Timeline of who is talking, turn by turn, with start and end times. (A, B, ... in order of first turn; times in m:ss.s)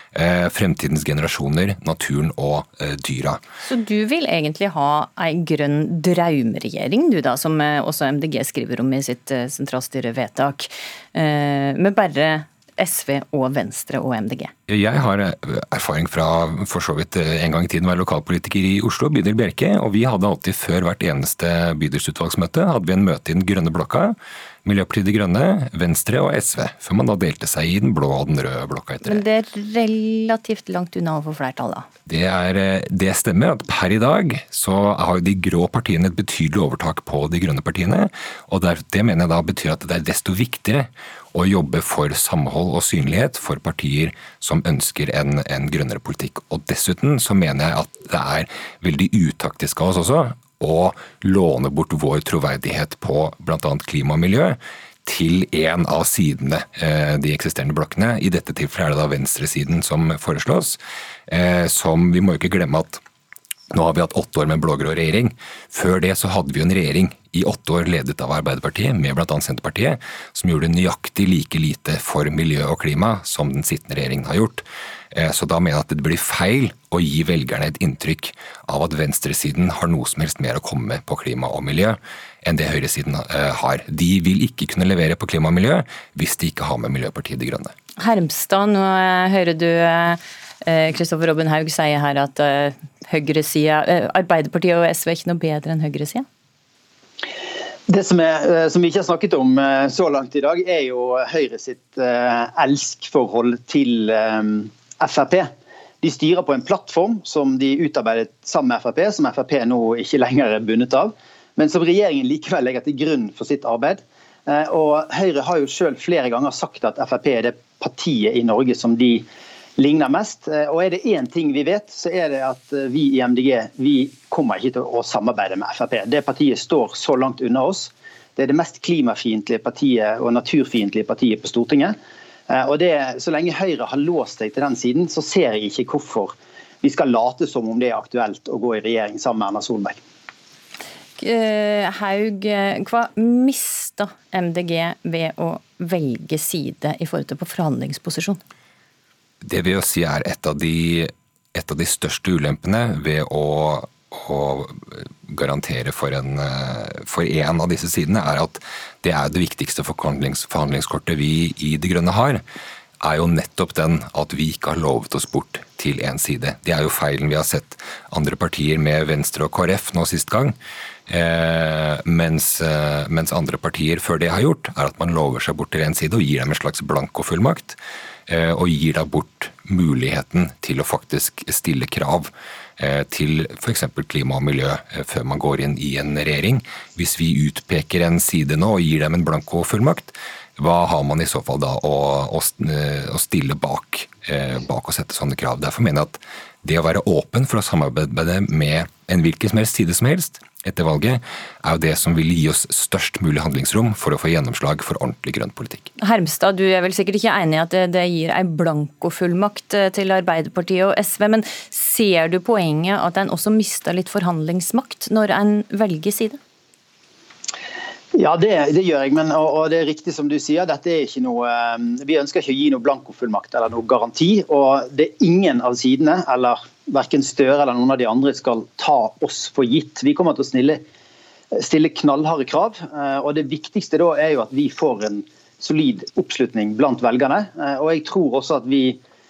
0:00.1-0:03.4 A
0:03.6-0:14.5 B
0:14.7-0:29.2 A
0:29.0-0:31.8 B
0:32.0-1:03.0 A
1:03.7-1:27.7 A
1:28.0-1:36.2 B
1:37.9-1:45.5 C
1:46.0-1:59.2 C
1:59.8-2:11.9 C
2:12.5-2:20.0 C
2:21.2-2:28.4 B
2:29.4-2:42.4 A
2:43.0-2:50.5 A
2:51.1-3:25.9 A
3:26.0-3:36.4 B
3:38.1-3:50.8 C
3:51.5-3:59.0 C